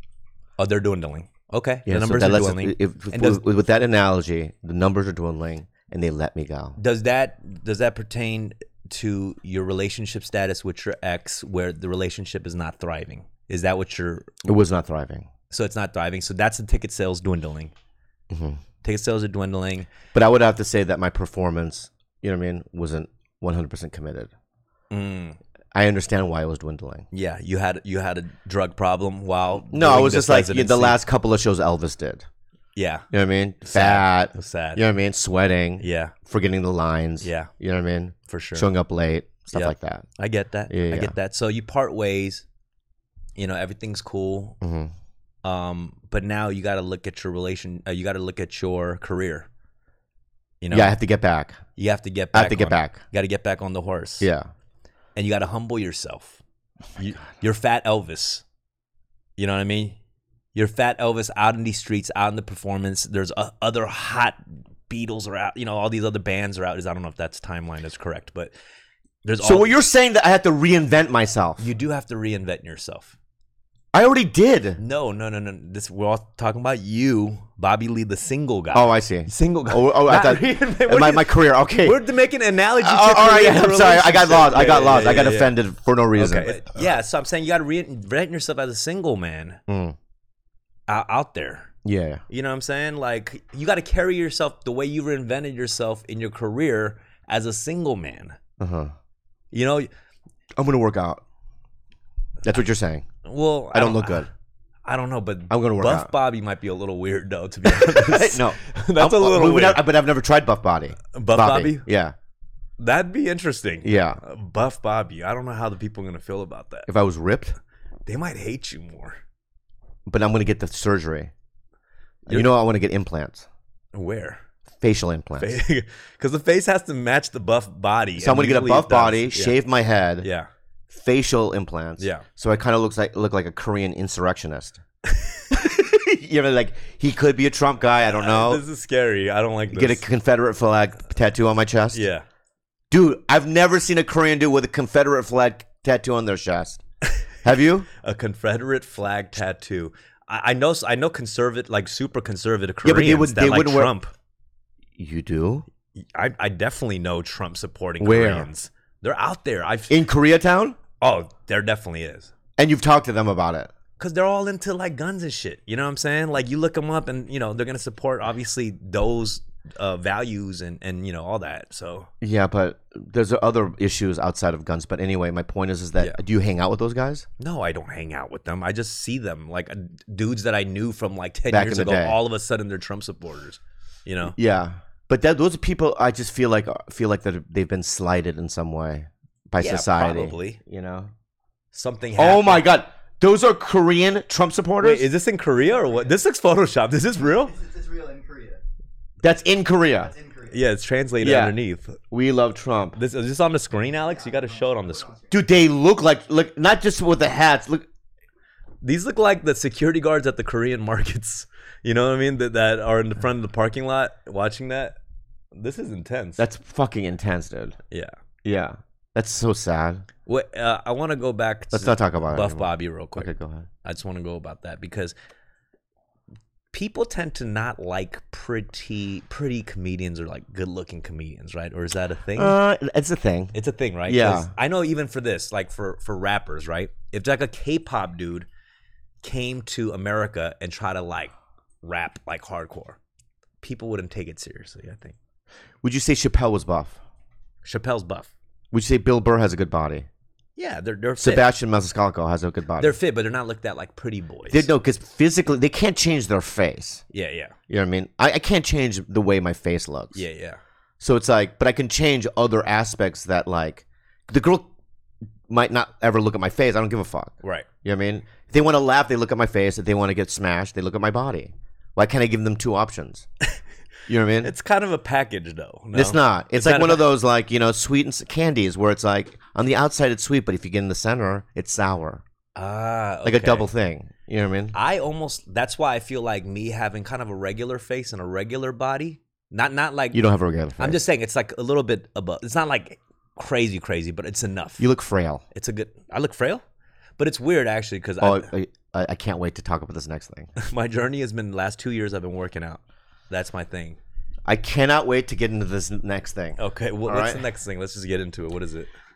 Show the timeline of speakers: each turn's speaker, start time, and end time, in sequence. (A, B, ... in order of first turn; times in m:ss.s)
0:00.6-0:03.4 A
0:01.9-0:06.8 B
0:06.8-0:14.4 A
0:14.4-0:15.3 B
0:15.5-0:17.7 A
0:18.3-0:18.6 B
0:18.8-0:19.9 A
0:20.1-0:24.3 B
0:24.9-0:25.4 A
0:25.7-0:27.1 B
0:27.1-0:31.0 A
0:29.7-0:32.2 B
0:32.8-0:33.0 A
0:33.1-0:40.1 B
0:33.6-0:34.8 A
0:35.8-0:36.1 A
0:37.2-0:37.5 A
0:38.3-0:38.7 A
0:39.5-0:42.4 A
0:40.7-0:41.1 B
0:43.4-0:44.6 A
0:44.6-0:44.9 B
0:45.4-0:49.5 A
0:50.6-0:51.0 A
0:50.7-0:51.6 B
0:51.8-0:54.3 A
0:52.3-0:53.0 B
0:54.2-0:54.5 B
0:55.2-0:56.4 A
0:57.0-0:58.4 A
0:59.4-1:00.0 A
1:00.6-1:08.5 A
1:09.2-1:09.7 A
1:09.4-1:11.6 B
1:11.6-1:13.1 A
1:13.9-1:14.8 B
1:14.8-1:25.5 A
1:18.7-1:22.0 B
1:22.8-1:26.6 B
1:26.1-1:29.6 A
1:29.7-1:30.0 B
1:30.9-1:31.7 A
1:31.8-1:32.2 B
1:32.3-1:38.4 A
1:38.6-1:38.9 B
1:39.5-1:39.9 A
1:40.6-1:41.2 B
1:42.4-1:43.1 B
1:43.2-1:44.3 A
1:43.7-1:44.3 B
1:44.9-1:49.9 A
1:45.5-1:46.1 B
1:47.6-1:52.1 B
1:51.1-1:51.8 A
1:52.8-1:56.9 A
1:53.8-1:54.2 B
1:56.9-1:57.6 B
1:58.1-1:59.2 A
2:00.1-2:01.3 B
2:02.3-2:03.5 B
2:03.9-2:04.4 A
2:04.8-2:05.6 B
2:05.4-2:09.6 A
2:08.2-2:10.3 B
2:10.2-2:10.5 A
2:10.9-2:14.8 B
2:12.0-2:12.2 A
2:15.1-2:15.4 A
2:15.5-2:18.6 B
2:18.2-2:20.0 A
2:19.7-2:22.0 B
2:21.9-2:22.2 A
2:22.9-2:26.8 B
2:27.4-2:27.9 B
2:28.0-2:34.1 A
2:32.8-2:33.9 B
2:35.0-2:35.6 B
2:36.0-2:40.0 A
2:38.0-2:38.5 B
2:39.9-2:40.8 B
2:41.0-2:42.3 A
2:42.6-2:43.7 B
2:44.0-2:52.1 A
2:52.2-2:57.2 B
2:57.4-3:04.4 A
3:01.5-3:02.2 B
3:04.3-3:11.1 B
3:09.6-3:10.6 A
3:11.7-3:12.7 A
3:12.2-3:15.1 B
3:14.8-3:17.6 A
3:17.3-3:18.6 C
3:19.2-3:20.1 B
3:20.0-3:20.6 C
3:20.5-3:22.0 A
3:21.2-3:21.6 B
3:22.1-3:23.0 B
3:23.0-3:25.1 A
3:24.1-3:25.4 C
3:25.3-3:27.9 B
3:28.8-3:35.0 A
3:35.5-3:36.4 A
3:36.4-3:37.8 B
3:38.4-3:40.0 B
3:40.2-3:43.3 A
3:41.7-3:43.7 B
3:43.8-3:45.1 A
3:46.7-3:52.6 A
3:52.3-3:53.5 B
3:53.5-3:58.5 A
3:54.0-3:54.5 B
3:59.2-4:01.3 A
4:01.8-4:03.0 A
4:03.6-4:05.2 A
4:05.8-4:07.0 B
4:07.6-4:08.3 A
4:08.7-4:10.1 B
4:10.6-4:11.5 A
4:11.2-4:13.0 B
4:12.8-4:14.7 A
4:14.5-4:17.0 B
4:17.1-4:17.5 A
4:17.7-4:20.2 B
4:20.1-4:20.6 A
4:21.0-4:24.7 B
4:25.5-4:33.2 B
4:27.4-4:27.7 A
4:34.1-4:34.5 B
4:34.4-4:37.1 A
4:35.9-4:42.2 B
4:42.6-4:43.7 A
4:43.2-4:44.8 B
4:44.7-4:50.2 A
4:50.1-4:51.0 B
4:50.8-4:54.9 A
4:54.8-4:55.4 B
4:55.5-4:56.6 A
4:57.2-4:58.5 A
4:58.2-5:00.5 B
5:00.6-5:04.0 A
5:04.5-5:07.4 B
5:06.6-5:08.9 A